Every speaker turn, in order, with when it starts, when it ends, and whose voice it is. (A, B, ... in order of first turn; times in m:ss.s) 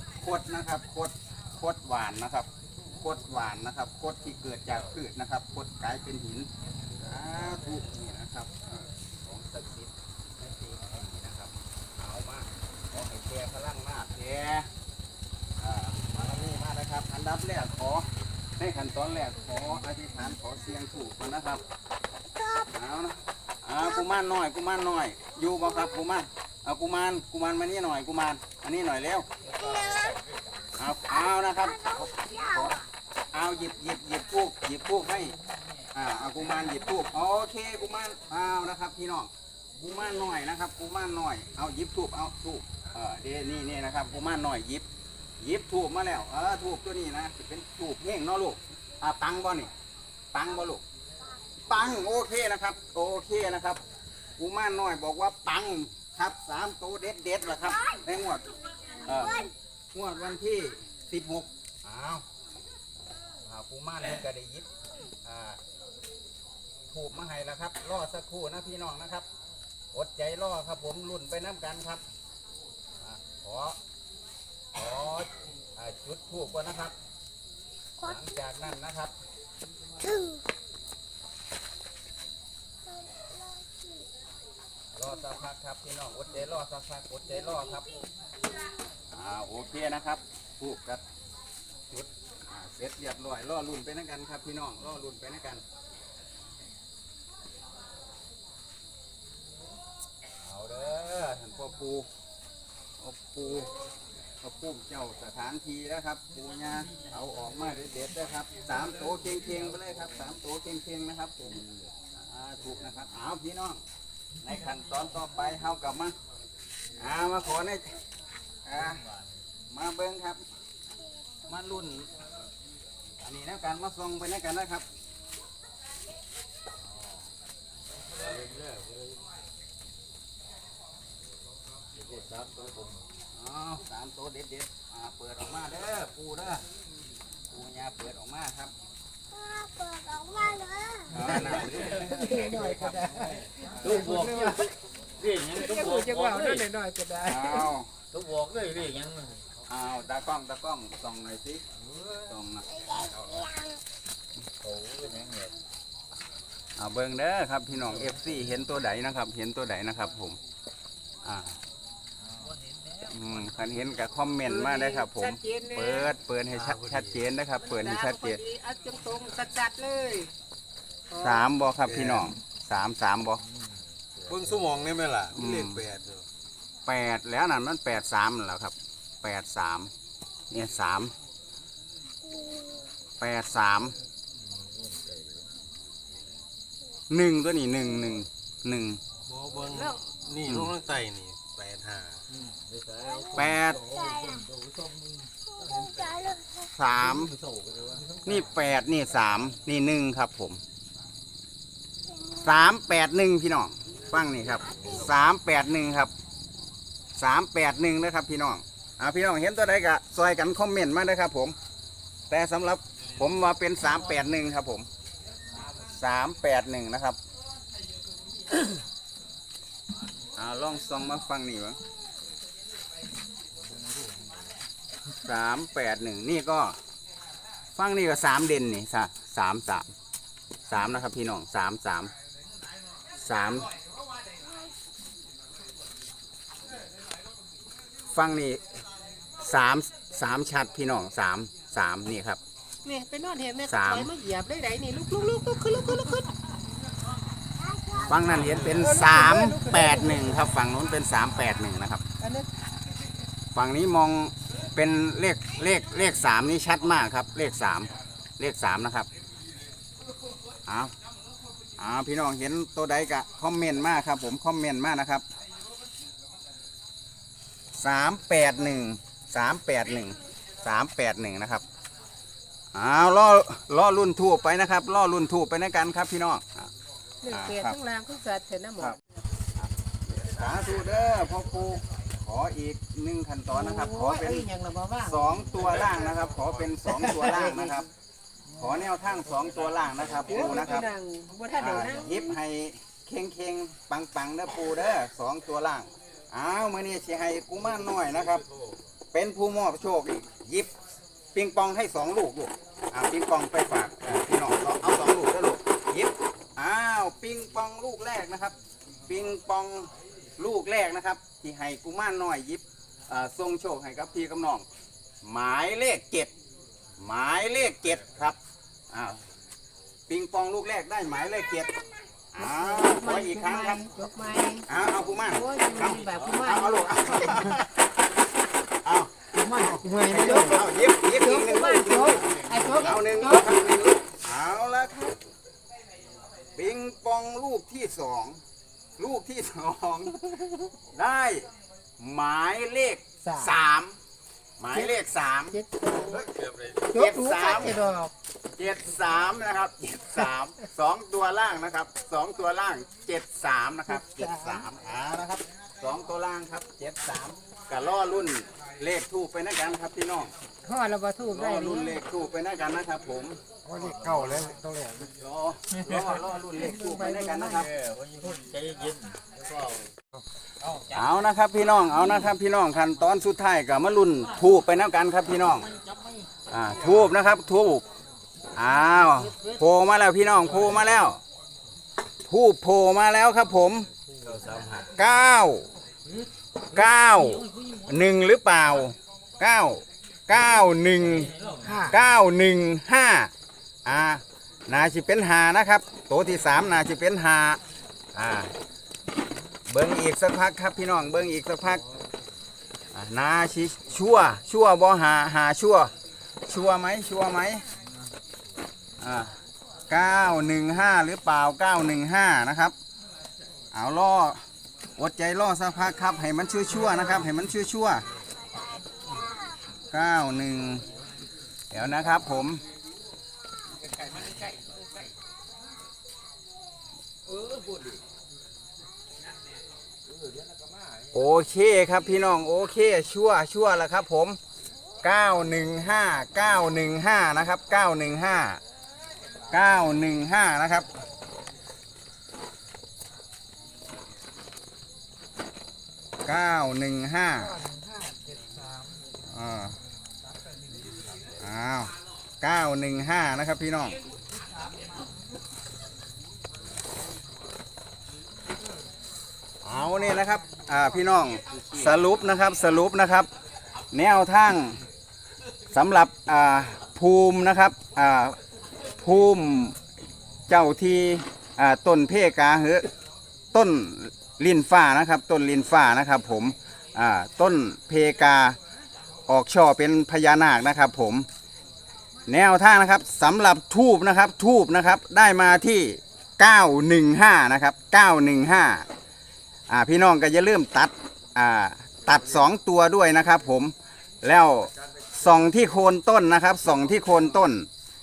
0:00.2-0:14.7 A
0:15.6-0:21.6 A
0:22.6-0:29.3 A
0:29.5-0:30.4 B
0:30.7-0:35.4 A
0:35.9-0:44.9 A
0:45.4-0:49.7 A
0:50.3-0:50.8 A
0:51.7-0:53.8 A
0:54.4-1:02.2 A
1:03.4-1:04.7 A
1:05.2-1:05.6 A
1:06.9-1:09.3 A
1:09.9-1:12.0 A
1:13.0-1:13.8 A
1:14.7-1:17.0 A
1:18.0-1:19.2 A
1:20.1-1:20.4 C
1:23.4-1:23.9 C
1:24.9-1:28.0 A
1:29.1-1:31.0 A
1:31.9-1:35.6 A
1:40.4-1:42.1 A
1:43.0-1:43.8 A
1:44.4-1:53.8 A
1:54.4-1:56.2 A
1:57.0-1:58.0 A
1:58.6-1:59.0 A
1:59.7-2:00.4 A
2:01.5-2:02.1 A
2:03.2-2:04.9 A
2:08.5-2:08.9 B
2:12.1-2:13.0 B
2:13.3-2:16.6 A
2:17.5-2:18.7 A
2:19.3-2:21.0 C
2:21.1-2:24.1 A
2:21.7-2:22.1 B
2:22.0-2:24.7 D
2:23.8-2:24.7 B
2:25.2-2:26.6 B
2:25.5-2:27.7 D
2:27.2-2:27.9 A
2:28.1-2:29.5 B
2:29.6-2:31.6 A
2:32.2-2:33.1 A
2:34.6-2:35.5 B
2:36.8-2:40.4 A
2:41.2-2:41.6 A
2:43.0-2:48.4 A
2:44.5-2:46.1 D
2:47.6-2:50.3 D
2:51.1-2:51.4 D
2:51.2-2:53.4 A
2:54.0-2:54.7 B
2:54.3-2:56.2 E
2:55.3-2:55.9 A
2:56.8-2:59.9 A
3:00.5-3:01.1 A
3:03.2-3:04.0 A
3:04.7-3:05.3 B
3:07.1-3:09.0 A
3:09.3-3:12.2 E
3:09.7-3:10.0 D
3:12.3-3:16.3 B
3:13.3-3:13.9 A
3:16.1-3:16.4 C
3:16.7-3:17.4 A
3:17.3-3:18.2 B
3:18.2-3:20.6 A
3:22.3-3:26.1 A
3:27.2-3:31.6 A
3:32.3-3:34.9 A
3:35.9-3:37.2 A
3:40.4-3:41.8 A
3:45.2-3:46.8 A
3:47.8-3:49.9 A
3:50.7-3:52.1 A
3:53.2-3:53.7 A
3:58.1-3:58.6 A
3:59.4-4:02.4 A
4:02.8-4:06.3 D
4:03.6-4:04.1 A
4:07.8-4:10.4 D
4:08.0-4:12.0 A
4:12.2-4:12.5 D
4:13.5-4:19.1 A
4:20.7-4:20.9 A
4:21.8-4:25.2 A
4:27.8-4:31.6 A
4:32.7-4:36.7 A
4:37.2-4:39.0 D
4:37.3-4:37.8 A
4:39.8-4:44.5 A
4:43.5-4:45.5 D
4:45.0-4:47.9 A
4:48.5-4:50.9 A
4:50.3-4:52.3 D
4:51.6-4:58.4 A
4:59.1-5:00.7 A
5:01.3-5:08.6 A
5:09.1-5:14.6 A
5:15.2-5:16.3 A
5:17.0-5:18.4 A
5:18.9-5:19.2 A
5:20.1-5:21.7 A
5:22.3-5:23.8 A
5:22.4-5:24.7 D
5:24.6-5:27.9 A
5:25.2-5:27.5 D
5:28.6-5:35.2 A
5:29.3-5:33.5 D
5:36.5-5:38.4 A
5:39.0-5:41.5 A
5:42.0-5:44.0 A
5:43.2-5:43.5 D
5:44.6-5:45.6 A
5:45.5-5:46.2 D
5:46.2-5:46.7 E
5:46.8-5:48.1 D
5:46.9-5:47.8 A
5:48.6-6:00.3 A
5:53.9-5:54.6 D
6:00.6-6:02.0 D
6:01.3-6:03.4 A
6:03.7-6:04.9 B
6:04.1-6:07.7 A
6:06.6-6:07.7 D
6:07.7-6:09.8 B
6:10.9-6:15.7 A
6:16.5-6:17.8 A
6:18.6-6:21.2 A
6:22.2-6:23.9 A
6:24.2-6:24.8 B
6:24.9-6:25.7 A
6:26.7-6:33.3 A
6:31.6-6:31.9 D
6:33.8-6:37.6 A
6:38.1-6:38.5 A
6:39.7-6:41.8 A
6:42.9-6:45.9 A
6:46.5-6:47.6 A
6:49.0-6:49.4 A
6:49.9-6:52.7 A
6:53.7-6:54.4 A
6:55.0-6:58.0 A
6:59.9-7:00.8 A
7:01.7-7:02.6 A
7:03.9-7:04.7 B
7:07.3-7:08.0 B
7:10.1-7:11.1 B
7:11.1-7:14.4 A
7:15.0-7:18.6 A
7:19.5-7:20.9 A
7:26.2-7:27.6 A
7:29.2-7:29.8 A
7:31.4-7:34.0 A
7:39.6-7:43.3 A
7:43.9-7:44.8 A
7:45.7-7:48.4 A
7:49.0-7:49.8 A
7:50.5-7:52.9 A
7:53.5-7:58.6 A
7:59.3-8:01.3 A
8:02.3-8:08.9 A
8:09.7-8:17.7 A